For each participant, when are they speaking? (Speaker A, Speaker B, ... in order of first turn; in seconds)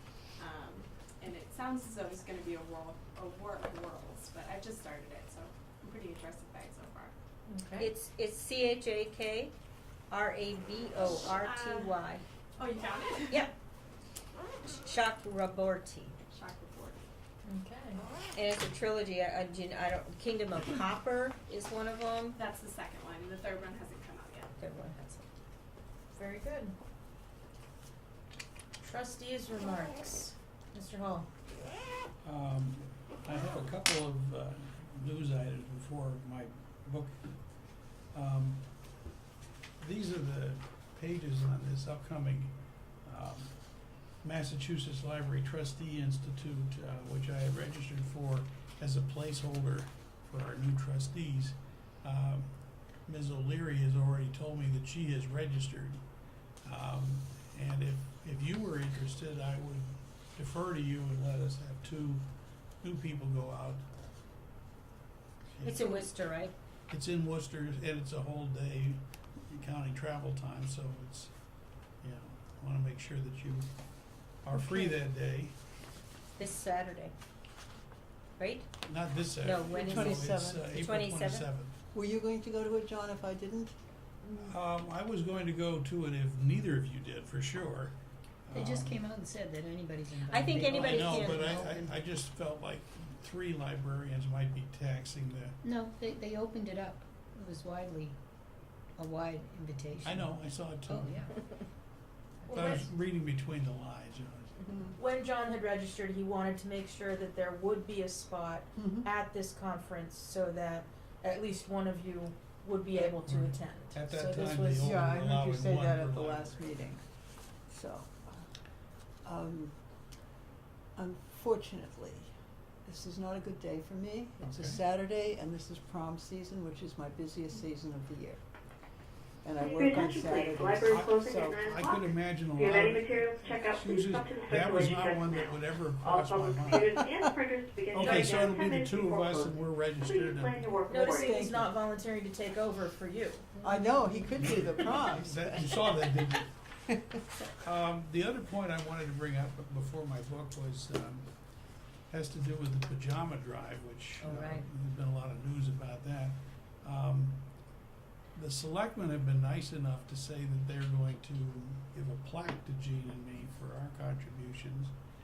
Speaker A: 0.4-7.1, 11.3-11.9, 12.6-13.5, 16.3-17.1, 22.4-24.5
Speaker B: 7.5-7.9, 17.4-18.0, 26.1-26.8, 28.8-31.3, 102.4-102.9, 105.0-115.0, 140.9-143.5
Speaker C: 7.8-9.5, 10.1-12.2, 14.6-16.2, 18.3-22.4, 24.6-25.2, 65.6-66.5, 74.6-74.9, 76.4-77.1, 78.4-78.7, 79.4-81.5, 90.3-91.5, 154.2-154.6
Speaker D: 32.2-37.2, 38.1-38.6, 39.8-42.5, 43.0-43.5, 44.2-52.5, 53.0-56.0, 56.6-62.2, 62.8-63.8, 65.6-66.1, 66.9-71.3, 72.0-73.7, 74.4-75.5, 78.8-81.7, 84.3-89.0, 90.8-95.5, 100.0-101.3, 102.5-104.6, 113.0-116.9, 124.4-124.8, 130.9-137.2, 137.9-140.7, 144.3-146.5, 147.6-151.3, 152.1-157.4, 158.3-164.9
Speaker E: 79.7-80.8, 81.9-83.7, 108.8-109.1, 114.5-117.0, 117.7-118.4, 119.2-119.7, 121.0-122.3, 122.8-128.4, 129.4-130.9, 141.1-141.7, 143.6-145.9
Speaker F: 88.5-91.9, 95.6-98.2, 99.0-101.4, 102.4-102.7
Speaker G: 129.6-141.4